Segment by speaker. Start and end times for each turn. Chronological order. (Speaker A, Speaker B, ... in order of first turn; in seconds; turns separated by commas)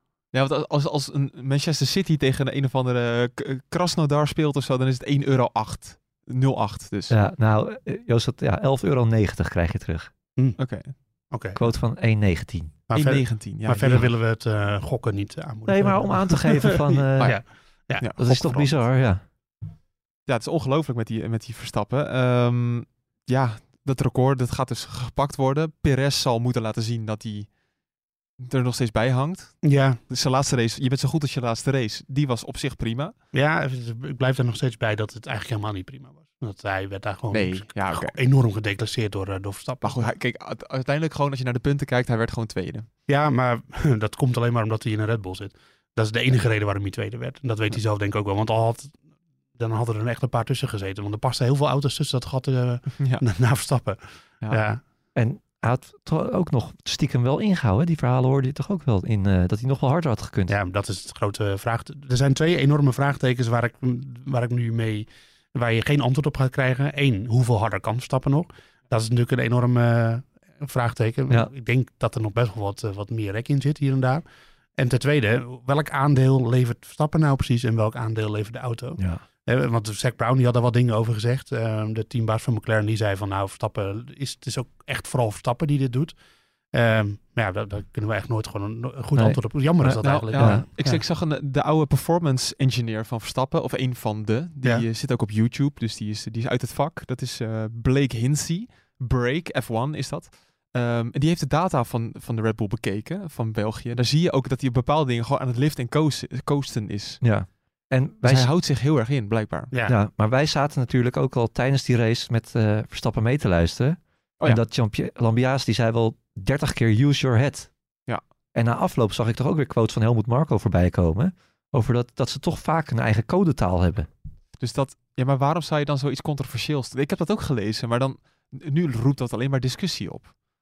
Speaker A: 0.3-7.2, Speaker B: 7.1-10.1, Speaker A: 10.6-10.9, Speaker C: 11.3-11.6, Speaker B: 11.6-12.7, Speaker C: 12.9-18.7, Speaker A: 12.9-14.1, Speaker B: 15.7-17.4, Speaker B: 18.2-19.2, Speaker A: 20.3-27.5, Speaker A: 28.4-33.2, Speaker C: 29.6-30.0, Speaker C: 33.3-40.1, Speaker A: 37.3-38.2, Speaker A: 39.8-42.9, Speaker C: 43.1-49.0, Speaker C: 49.6-54.8, Speaker B: 55.1-60.5, Speaker C: 60.5-74.2, Speaker C: 74.8-86.2, Speaker C: 86.7-91.0, Speaker B: 89.2-90.7, Speaker A: 90.0-107.2, Speaker B: 107.2-108.5, Speaker A: 108.2-109.7, Speaker C: 109.7-110.0, Speaker B: 109.9-117.7, Speaker B: 118.5-124.1, Speaker A: 124.6-130.3